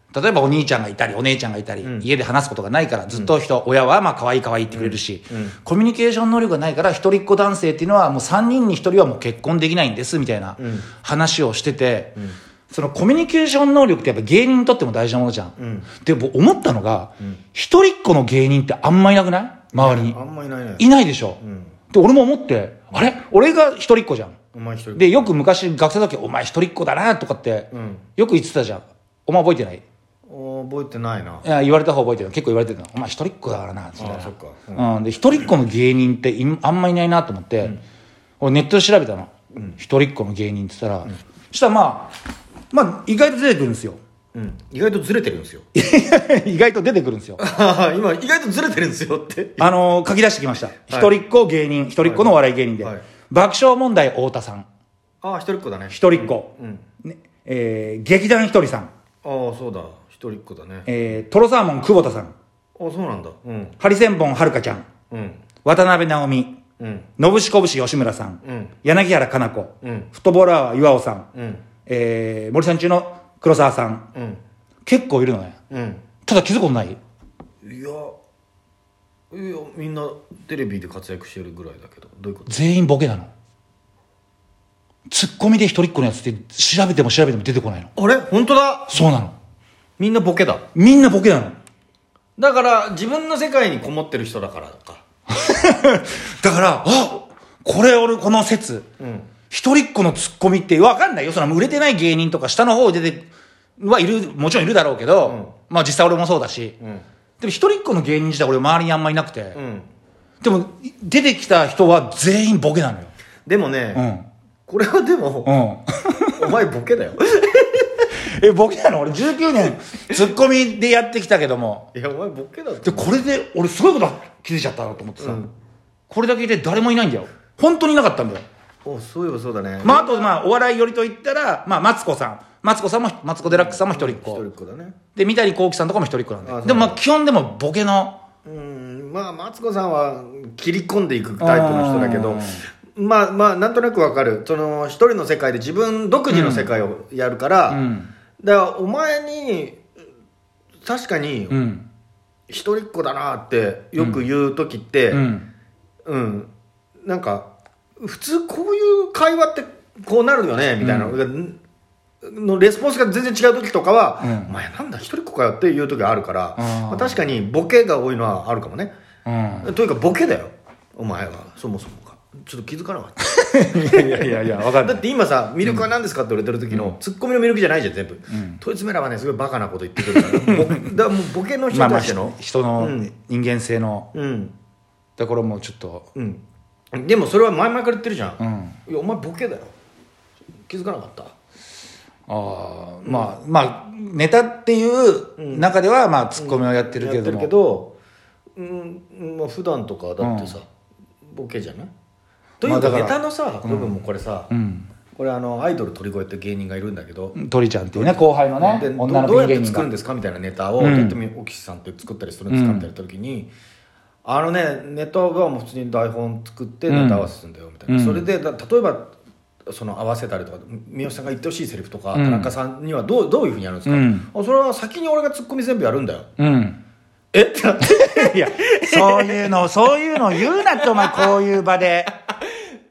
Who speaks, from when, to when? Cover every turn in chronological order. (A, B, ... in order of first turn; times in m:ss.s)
0:00.1-0:12.2 A
0:04.7-0:05.6 B
0:10.6-0:10.9 B
0:12.7-0:20.2 A
0:15.6-0:15.9 B
0:19.8-0:20.9 B
0:20.8-0:21.4 A
0:21.4-0:21.8 B
0:21.9-0:24.4 A
0:24.5-0:25.3 B
0:25.0-0:29.8 A
0:27.7-0:28.1 B
0:30.3-0:31.5 B
0:31.4-0:37.8 A
0:34.0-0:34.9 B
0:38.4-0:42.2 A
0:42.7-0:44.0 A
0:44.3-0:45.6 B
0:45.8-0:47.4 A
0:47.4-0:49.7 B
0:49.6-0:54.7 A
0:52.0-0:53.0 B
0:55.2-0:56.8 B
0:55.9-0:56.5 A
0:57.0-0:58.9 A
0:59.2-1:00.9 B
1:00.9-1:02.3 A
1:02.8-1:03.8 B
1:03.8-1:04.9 A
1:05.1-1:05.4 B
1:05.6-1:06.6 A
1:06.8-1:07.1 B
1:07.2-1:11.3 A
1:08.4-1:08.8 B
1:09.8-1:10.1 B
1:11.3-1:11.6 B
1:11.9-1:14.1 A
1:14.1-1:14.4 B
1:14.8-1:15.6 A
1:15.7-1:16.0 B
1:16.2-1:17.0 A
1:17.6-1:18.1 B
1:19.3-1:22.6 B
1:22.5-1:23.3 A
1:25.1-1:27.9 A
1:28.0-1:29.0 B
1:28.9-1:29.4 A
1:30.0-1:30.6 B
1:30.8-1:31.6 A
1:32.4-1:35.0 B
1:35.3-1:38.9 A
1:39.0-1:39.3 B
1:39.5-1:46.8 A
1:45.2-1:45.5 B
1:46.8-1:47.0 B
1:47.4-1:49.6 A
1:49.5-1:49.9 B
1:50.4-1:53.1 A
1:53.5-1:54.0 B
1:54.0-1:54.3 A
1:54.7-1:55.5 B
1:55.5-1:56.4 A
1:56.4-1:58.1 B
1:58.2-2:01.9 A
2:01.9-2:03.2 B
2:02.8-2:05.4 A
2:05.2-2:05.5 B
2:06.1-2:08.4 A
2:08.8-2:10.2 B
2:09.8-2:14.4 A
2:13.4-2:15.0 B
2:15.2-2:18.2 A
2:16.4-2:17.0 B
2:18.4-2:27.8 B
2:21.4-2:22.6 A
2:26.3-2:26.7 A
2:27.7-2:28.1 A
2:28.4-2:29.8 B
2:30.8-2:31.6 B
2:31.5-2:31.9 A
2:32.5-2:35.2 B
2:34.0-2:34.2 A
2:35.1-2:35.5 A
2:36.0-2:36.5 B
2:37.0-2:41.6 B
2:40.8-2:41.2 A
2:42.2-2:48.9 B
2:44.2-2:44.5 A
2:46.6-2:47.2 A
2:49.3-2:49.7 A
2:49.6-3:03.1 B
2:53.3-2:55.0 A
2:58.3-2:58.6 A
3:00.1-3:00.9 A
3:01.7-3:04.1 A
3:04.1-3:04.6 B
3:05.2-3:06.1 A
3:06.2-3:09.7 B
3:08.4-3:08.8 A
3:10.7-3:11.3 B
3:12.3-3:17.5 A
3:13.0-3:13.3 B
3:15.4-3:15.7 B
3:16.4-3:17.9 B
3:18.6-3:20.7 B
3:20.2-3:20.6 A
3:21.3-3:21.9 B
3:22.6-3:24.5 B
3:22.6-3:24.0 A
3:24.5-3:24.9 A
3:25.2-3:27.4 B
3:27.4-3:29.9 A
3:28.0-3:33.5 B
3:30.8-3:31.2 A
3:32.5-3:32.9 A
3:34.2-3:39.1 B
3:36.9-3:37.3 A
3:37.9-3:38.3 A
3:39.7-3:46.3 B
3:42.1-3:42.5 A
3:43.9-3:44.3 A
3:46.4-3:46.8 A
3:47.3-3:51.3 B
3:48.0-3:52.1 A